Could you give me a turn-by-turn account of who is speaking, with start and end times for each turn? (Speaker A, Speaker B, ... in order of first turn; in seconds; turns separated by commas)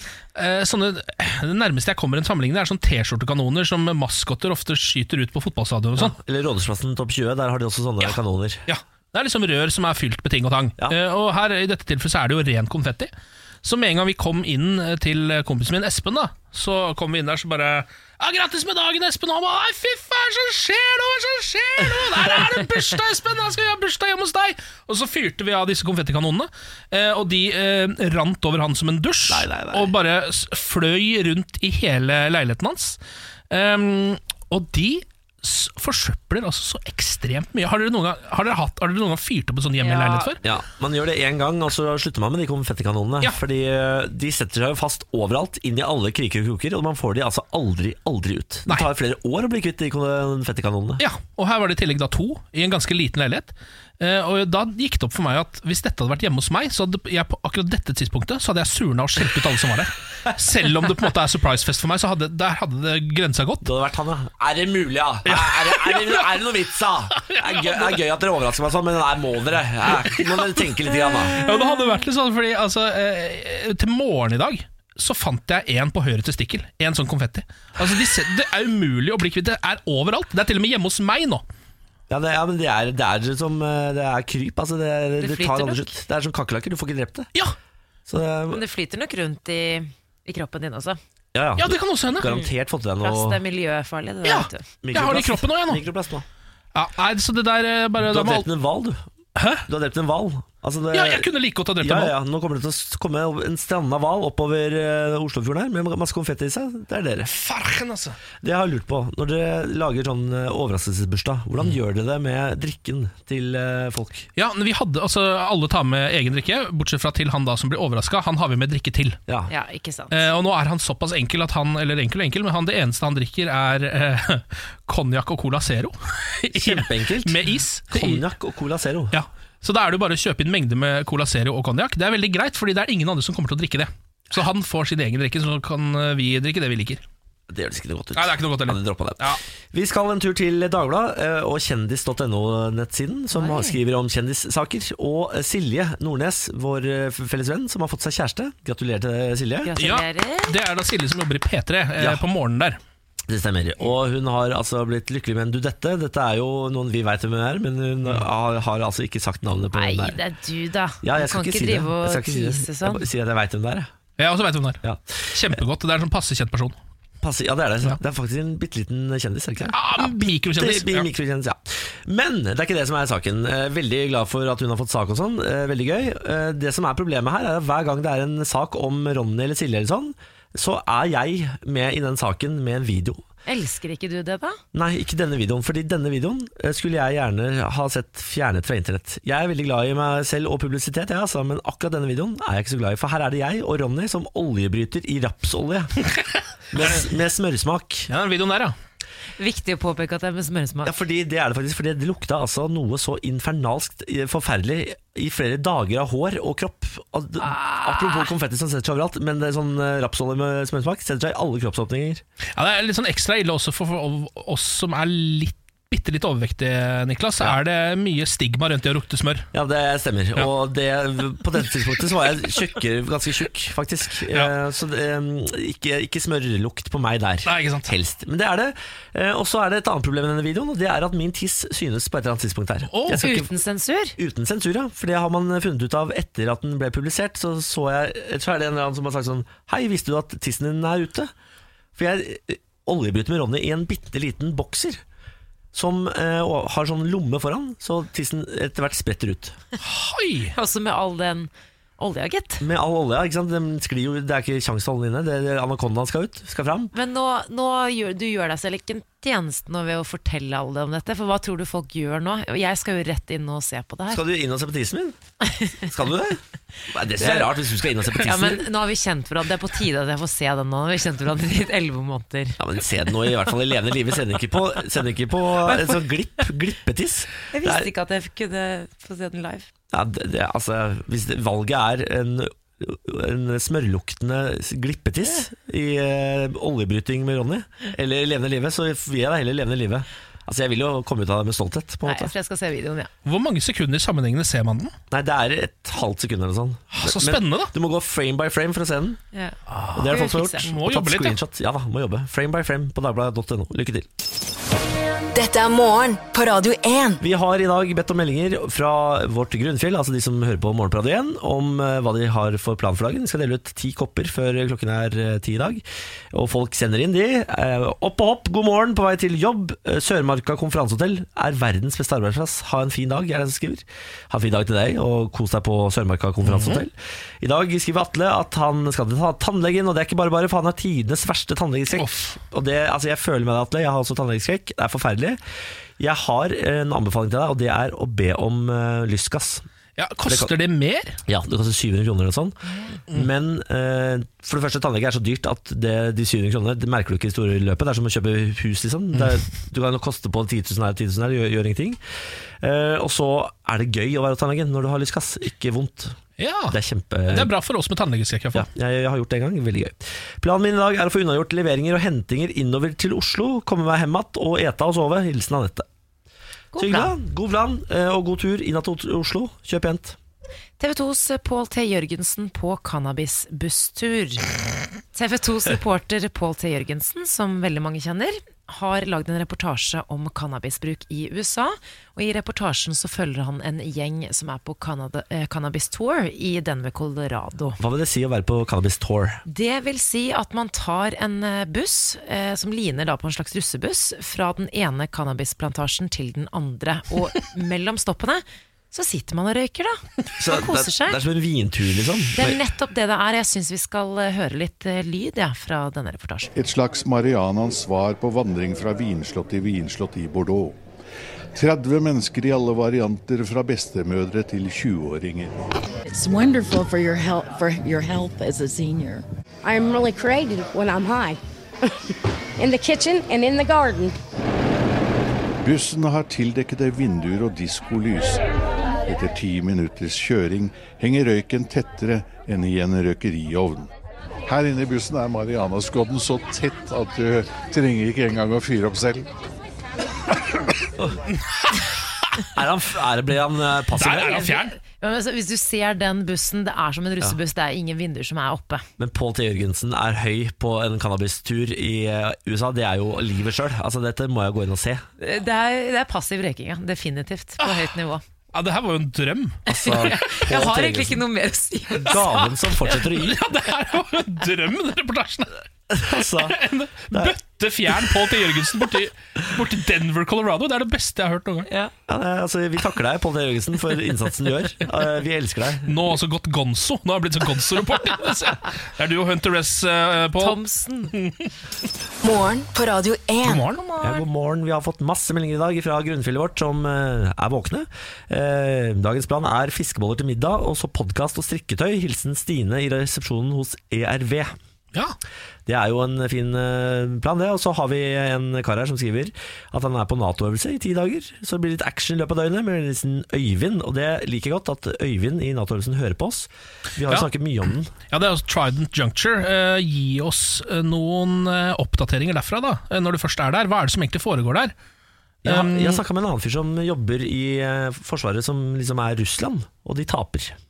Speaker A: 0.3-6.1, Speaker B: 6.0-8.6, Speaker A: 8.7-13.1, Speaker A: 13.6-33.0, Speaker B: 29.3-29.9, Speaker A: 33.5-40.4, Speaker C: 39.8-40.3, Speaker B: 40.4-51.0, Speaker A: 51.0-63.6, Speaker B: 63.6-71.4, Speaker A: 65.2-66.3, Speaker A: 67.2-68.0, Speaker A: 70.0-70.6, Speaker C: 71.3-71.8, Speaker A: 71.3-81.4, Speaker B: 82.1-87.3, Speaker C: 85.2-85.9, Speaker B: 88.1-88.6, Speaker C: 88.5-91.0, Speaker B: 91.3-93.4, Speaker A: 91.6-92.3, Speaker C: 93.0-94.6, Speaker A: 94.2-95.8, Speaker B: 94.8-96.2, Speaker A: 96.7-98.5, Speaker B: 98.0-99.0, Speaker A: 99.4-99.6, Speaker B: 99.7-101.3, Speaker A: 100.9-102.1, Speaker B: 101.8-107.3, Speaker A: 107.2-108.2, Speaker B: 108.4-114.3, Speaker A: 114.3-119.2, Speaker C: 119.5-120.2, Speaker A: 120.1-128.2, Speaker B: 126.5-129.2, Speaker A: 129.1-137.0, Speaker B: 137.5-149.7, Speaker A: 138.2-139.4, Speaker C: 143.3-143.8, Speaker C: 149.6-150.6, Speaker A: 149.8-152.8, Speaker B: 153.3-160.2, Speaker C: 159.7-163.0, Speaker B: 161.0-163.9, Speaker A: 164.2-166.8, Speaker B: 164.8-165.2, Speaker B: 167.2-183.2, Speaker A: 169.7-171.1, Speaker C: 183.4-184.6, Speaker B: 184.7-195.9, Speaker B: 196.7-198.1, Speaker A: 196.8-197.0, Speaker A: 198.1-198.7, Speaker C: 199.4-200.9, Speaker B: 200.8-212.2, Speaker A: 212.6-219.4, Speaker B: 219.5-233.5, Speaker A: 227.4-227.9, Speaker A: 232.9-233.2, Speaker C: 233.1-234.2, Speaker B: 234.2-241.3, Speaker B: 241.9-245.0, Speaker B: 245.7-249.6, Speaker A: 249.8-250.5, Speaker C: 250.5-252.6, Speaker B: 252.6-256.9, Speaker C: 256.9-264.2, Speaker B: 264.1-265.2, Speaker C: 265.5-265.8, Speaker B: 265.8-268.7, Speaker C: 267.2-267.4, Speaker C: 268.1-272.6, Speaker B: 272.6-277.9, Speaker C: 275.7-276.0, Speaker C: 277.5-279.7, Speaker B: 279.9-292.3, Speaker C: 292.0-293.1, Speaker A: 293.2-294.9, Speaker B: 295.1-299.2, Speaker A: 296.9-297.7, Speaker A: 299.7-301.4, Speaker B: 299.9-304.1, Speaker C: 300.1-300.7, Speaker D: 305.3-307.2, Speaker B: 307.2-335.4, Speaker A: 326.4-326.8, Speaker A: 332.0-332.3, Speaker B: 336.0-339.6, Speaker A: 340.0-341.2, Speaker B: 340.2-340.5, Speaker B: 341.3-352.0, Speaker C: 342.7-343.0, Speaker B: 352.6-356.2, Speaker A: 356.4-356.8, Speaker B: 356.7-357.5, Speaker A: 357.3-358.7, Speaker B: 358.5-365.9, Speaker C: 366.7-367.1, Speaker B: 366.8-370.2, Speaker C: 370.8-374.5, Speaker C: 375.1-387.8, Speaker B: 387.8-389.4, Speaker C: 389.5-401.2, Speaker B: 400.4-402.6, Speaker C: 402.4-406.5, Speaker E: 406.6-410.8, Speaker E: 411.5-415.6, Speaker F: 416.1-419.2, Speaker G: 419.6-421.4, Speaker G: 422.6-424.1, Speaker E: 425.6-428.4, Speaker E: 429.0-433.9, Speaker E: 434.4-439.3, Speaker B: 442.5-444.5, Speaker A: 443.9-444.7, Speaker C: 444.3-448.9, Speaker B: 449.0-455.0, Speaker C: 455.2-458.2, Speaker A: 458.5-459.6, Speaker B: 459.7-461.2, Speaker C: 459.7-462.4, Speaker B: 461.9-463.4, Speaker A: 463.0-465.6, Speaker B: 465.9-466.6, Speaker A: 466.4-471.7, Speaker B: 467.1-467.4, Speaker C: 471.7-471.9, Speaker B: 472.1-475.9, Speaker A: 475.9-480.6, Speaker C: 480.4-481.1, Speaker D: 482.2-483.7, Speaker A: 483.4-483.8, Speaker C: 483.7-484.2, Speaker B: 484.0-494.6, Speaker B: 495.7-507.9, Speaker A: 508.1-514.7, Speaker B: 515.4-520.6, Speaker A: 515.4-516.0